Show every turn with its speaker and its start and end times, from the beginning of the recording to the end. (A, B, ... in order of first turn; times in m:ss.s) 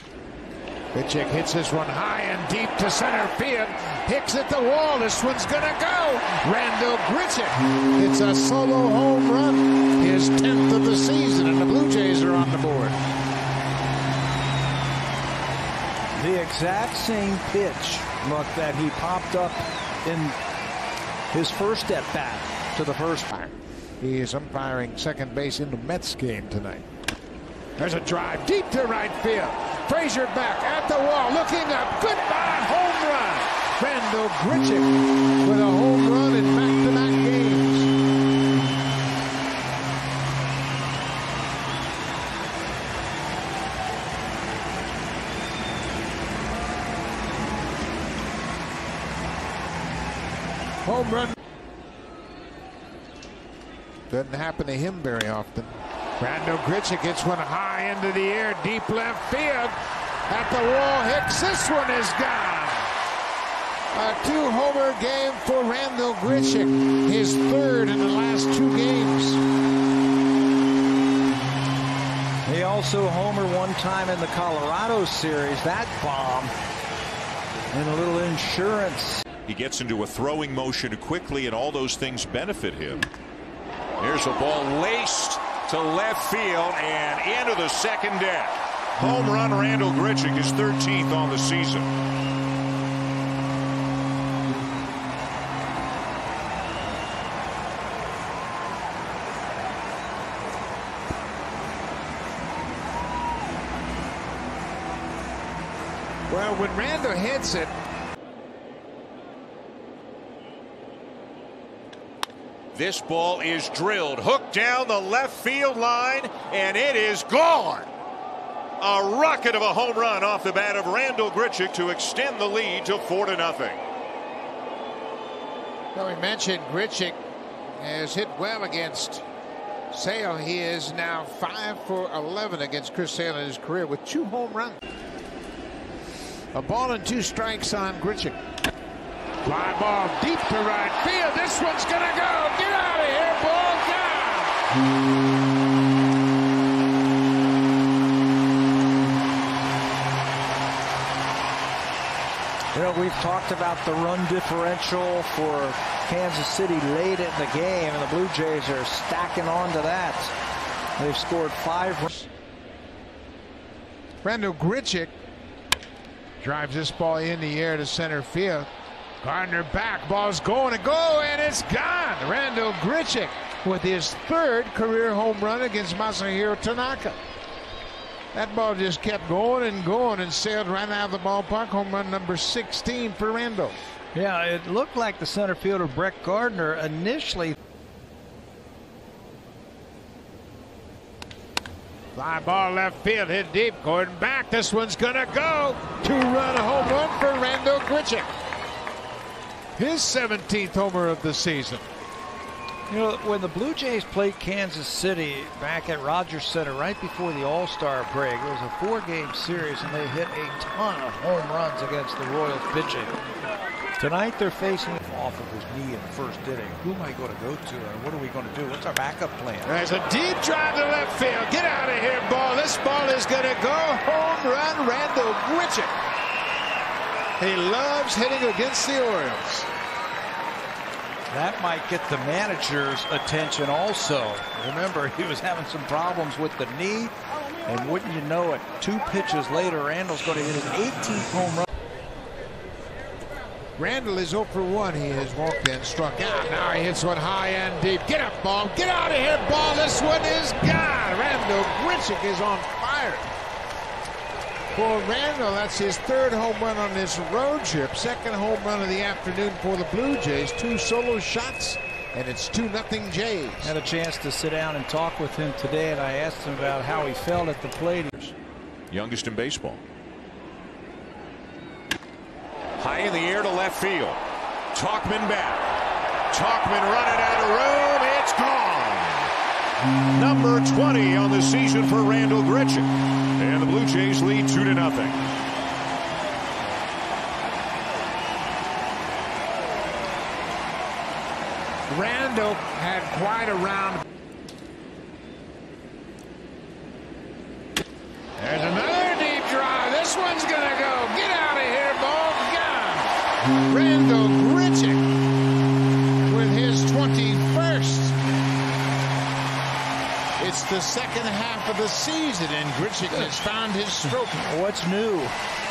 0:00.9-0:13.0 A
0:16.1-0:20.4 B
0:21.3-0:23.4 B
0:23.4-0:26.8 A
0:27.8-0:37.9 A
0:50.8-0:51.4 A
0:54.1-0:59.8 A
1:00.3-1:02.9 A
1:03.9-1:09.4 A
1:12.4-1:16.5 B
1:17.7-1:19.2 B
1:19.5-1:23.1 C
1:24.0-1:31.9 C
1:46.3-1:47.7 A
1:52.7-1:57.9 C
1:58.8-2:03.8 C
2:06.0-2:07.2 A
2:07.8-2:09.2 A
2:09.9-2:14.8 A
2:16.5-2:18.4 A
2:19.4-2:24.6 A
2:32.7-2:40.3 B
2:41.0-2:42.3 B
2:44.2-2:45.1 A
2:46.4-2:48.7 A
2:49.2-2:57.2 A
2:58.3-3:03.8 A
3:04.1-3:07.6 B
3:12.2-3:18.3 A
3:19.8-3:21.8 A
3:22.9-3:33.2 B
3:34.0-3:39.7 B
3:39.6-3:46.0 A
3:47.4-3:49.7 A
3:51.3-3:57.1 B
3:57.6-4:01.7 B
4:03.8-4:13.3 A
4:14.7-4:23.7 A
4:23.6-4:28.4 B
4:28.9-4:29.8 C
4:32.8-4:34.2 C
4:34.7-4:35.8 C
4:36.3-4:39.3 C
4:40.1-4:45.2 C
4:51.9-4:54.0 A
4:58.4-5:05.0 A
5:06.3-5:08.2 A
5:10.4-5:14.4 A
5:14.3-5:15.4 B